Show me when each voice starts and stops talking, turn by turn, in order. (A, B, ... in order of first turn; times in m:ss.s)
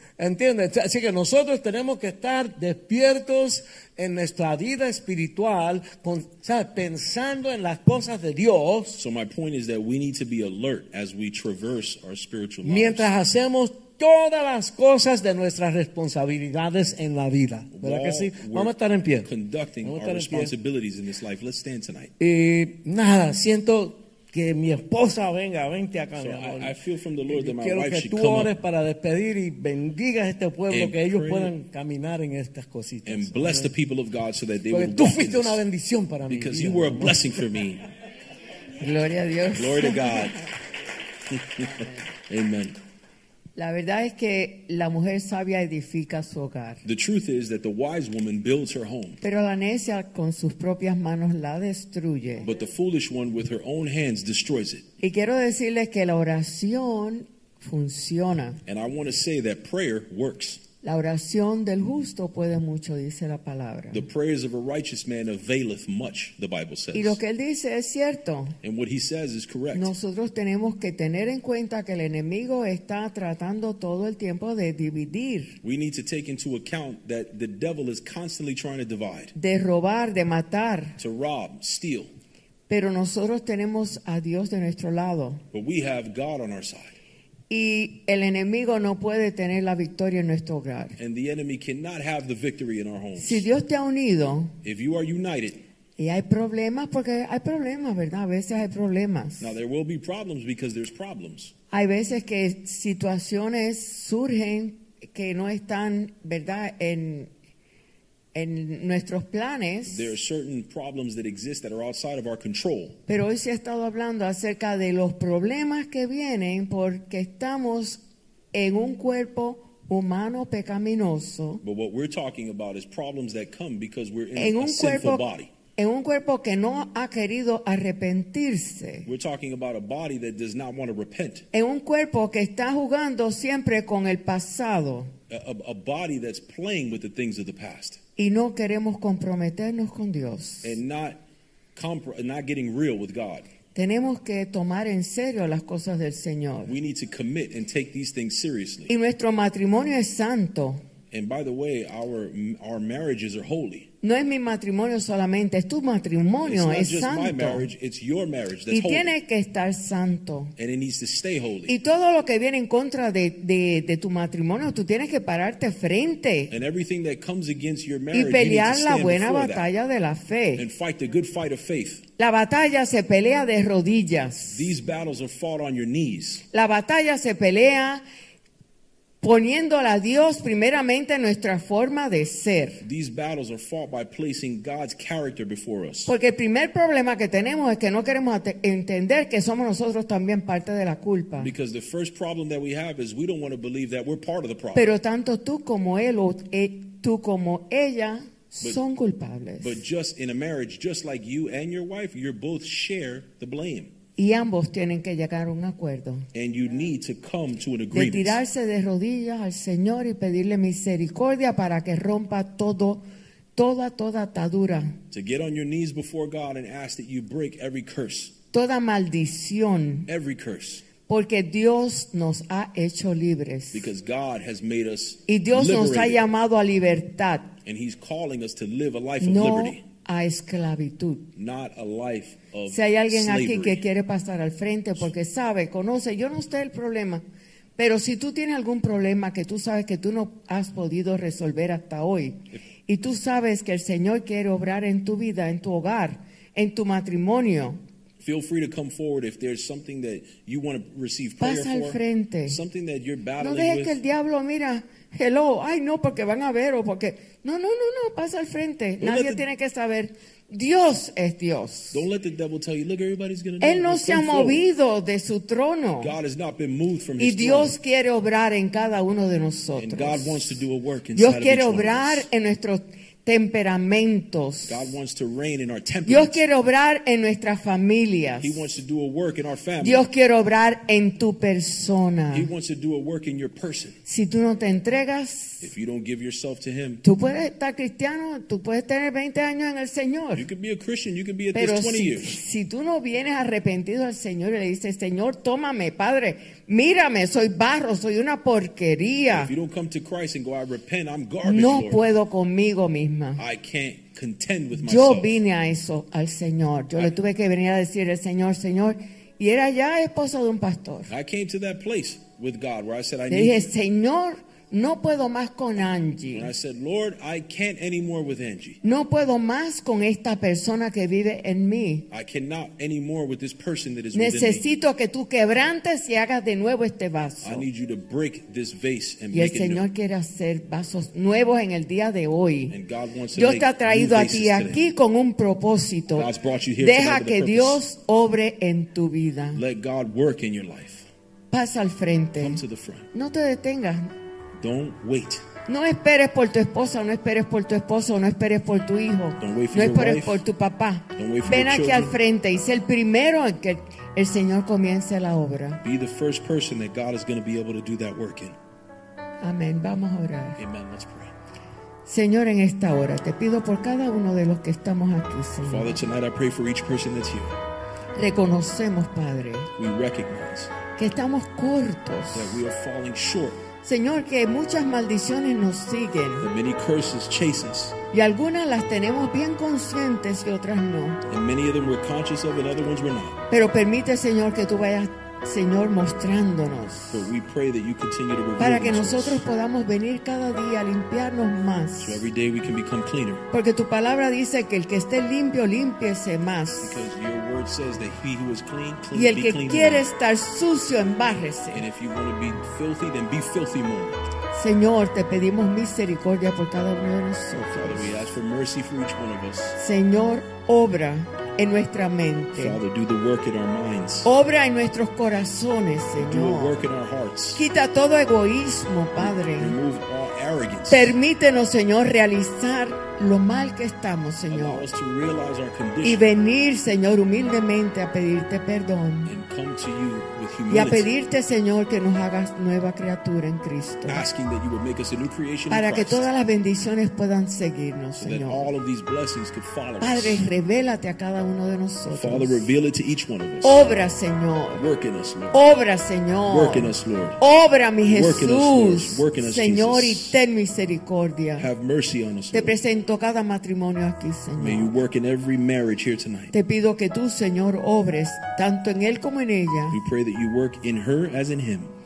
0:00.2-0:09.0 A
0:09.0-0:13.1 B
0:12.6-0:19.3 A
0:17.7-0:22.1 B
0:19.8-0:20.5 A
0:22.2-0:26.7 A
0:26.2-0:28.5 B
0:27.3-0:33.7 A
0:30.7-0:31.5 B
0:33.1-0:35.6 B
0:34.7-0:37.2 A
0:36.3-0:37.8 B
0:38.8-0:40.4 C
0:39.5-0:40.4 B
0:41.3-0:42.8 B
0:41.7-0:42.0 C
0:43.6-0:46.8 C
0:46.8-0:49.2 B
0:49.2-0:52.5 C
0:52.4-0:54.9 B
0:55.0-0:58.6 C
0:58.7-1:00.6 B
1:00.8-1:04.0 C
1:03.9-1:07.2 B
1:06.9-1:08.6 C
1:08.6-1:09.9 B
1:09.7-1:15.6 C
1:15.6-1:19.3 B
1:19.4-1:21.0 C
1:21.0-1:22.1 B
1:22.7-1:25.4 C
1:25.5-1:27.0 B
1:27.5-1:31.0 C
1:31.0-1:33.5 B
1:33.2-1:34.6 C
1:34.6-1:35.6 B
1:36.0-1:39.5 C
1:39.4-1:41.5 B
1:41.7-1:47.3 C
1:48.3-1:50.1 C
1:49.9-1:53.0 B
1:53.1-1:58.0 C
1:58.5-2:01.6 C
2:01.6-2:05.5 B
2:04.4-2:05.2 C
2:05.8-2:09.1 C
2:09.0-2:11.5 B
2:11.5-2:15.1 C
2:15.3-2:18.0 B
2:18.2-2:20.8 C
2:20.6-2:21.2 B
2:21.8-2:23.5 B
2:23.8-2:26.8 C
2:26.7-2:28.9 B
2:28.9-2:30.8 C
2:31.1-2:33.9 B
2:34.0-2:37.6 C
2:36.4-2:39.1 B
2:38.7-2:40.5 C
2:40.6-2:41.8 B
2:41.7-2:46.5 C
2:46.5-2:49.7 B
2:48.1-2:50.7 C
2:50.6-2:52.0 B
2:52.2-2:54.7 C
2:54.5-2:56.5 B
2:56.5-2:58.0 C
2:59.2-3:02.8 C
3:02.8-3:06.1 B
3:06.1-3:11.5 C
3:11.4-3:14.9 B
3:14.7-3:19.8 C
3:19.6-3:23.9 B
3:24.2-3:26.3 C
3:26.3-3:28.4 B
3:27.9-3:33.0 C
3:33.5-3:35.0 C
3:35.1-3:38.4 B
3:38.5-3:40.1 C
3:40.1-3:40.9 B
3:41.0-3:43.9 C
3:43.7-3:46.2 B
3:45.3-3:47.6 C
3:47.6-3:49.8 B
3:49.2-3:51.3 C
3:51.4-3:53.8 B
3:52.7-3:57.2 C
3:57.8-4:07.8 C
4:08.2-4:14.0 B
4:11.4-4:12.6 C
4:13.4-4:22.0 C
4:19.0-4:19.4 B
4:21.9-4:24.6 B
4:23.6-4:26.2 C
4:26.0-4:27.8 B
4:27.2-4:30.6 C
4:29.8-4:32.3 B
4:31.2-4:35.0 C
4:34.6-4:36.4 B
4:36.1-4:38.7 C
4:38.4-4:40.1 B
4:39.8-4:42.5 C
4:42.3-4:44.0 B
4:44.1-4:45.7 C
4:45.6-4:47.0 B
4:47.0-4:50.5 C
4:50.3-4:52.4 B
4:51.5-4:59.5 C
4:59.3-5:02.1 B
5:01.4-5:03.4 C
5:03.4-5:05.4 B
5:04.8-5:11.1 C
5:11.1-5:13.7 B
5:13.3-5:16.5 C
5:16.3-5:18.8 B
5:18.8-5:22.1 C
5:22.1-5:24.7 B
5:24.1-5:27.7 C
5:27.4-5:29.9 B
5:29.3-5:32.8 C
5:32.7-5:34.8 B
5:33.4-5:39.6 C
5:36.1-5:37.8 B
5:39.5-5:41.1 B
5:41.5-5:42.6 C
5:42.4-5:43.1 B
5:43.1-5:44.1 C
5:44.6-5:45.5 B
5:45.7-5:55.8 C
5:49.4-5:50.4 B
5:51.2-5:52.2 B
5:55.8-5:58.6 B
5:59.4-6:00.6 C
6:00.6-6:01.3 B
6:02.0-6:06.0 C
6:05.6-6:07.6 B
6:08.2-6:09.7 C
6:09.8-6:10.7 B
6:11.0-6:12.6 C
6:12.3-6:13.6 B
6:13.8-6:16.5 C
6:16.4-6:18.0 B
6:18.1-6:21.2 C
6:21.3-6:23.4 B
6:23.5-6:27.3 C
6:27.1-6:29.4 B
6:28.6-6:32.3 C
6:32.0-6:33.4 B
6:33.5-6:37.1 C
6:36.8-6:40.1 B
6:39.1-6:41.8 C
6:41.7-6:44.2 B
6:44.5-6:48.2 C
6:47.7-6:49.8 B
6:49.8-6:52.8 C
6:52.6-6:54.3 B
6:54.2-6:56.9 C
6:56.2-6:57.6 B
6:57.6-6:59.8 C
6:59.2-7:01.2 B
7:00.9-7:04.9 C
7:04.5-7:06.3 B
7:06.0-7:09.4 C
7:09.2-7:11.1 B
7:10.7-7:14.2 C
7:14.1-7:16.3 B
7:15.7-7:18.7 C
7:18.2-7:20.4 B
7:20.0-7:22.7 C
7:22.1-7:24.0 B
7:23.6-7:24.9 C
7:24.7-7:25.6 B
7:25.5-7:31.7 C
7:26.5-7:27.4 B
7:28.0-7:30.4 B
7:31.6-7:32.8 B
7:32.5-7:35.0 C
7:34.6-7:36.5 B
7:36.5-7:40.0 C
7:39.9-7:42.0 B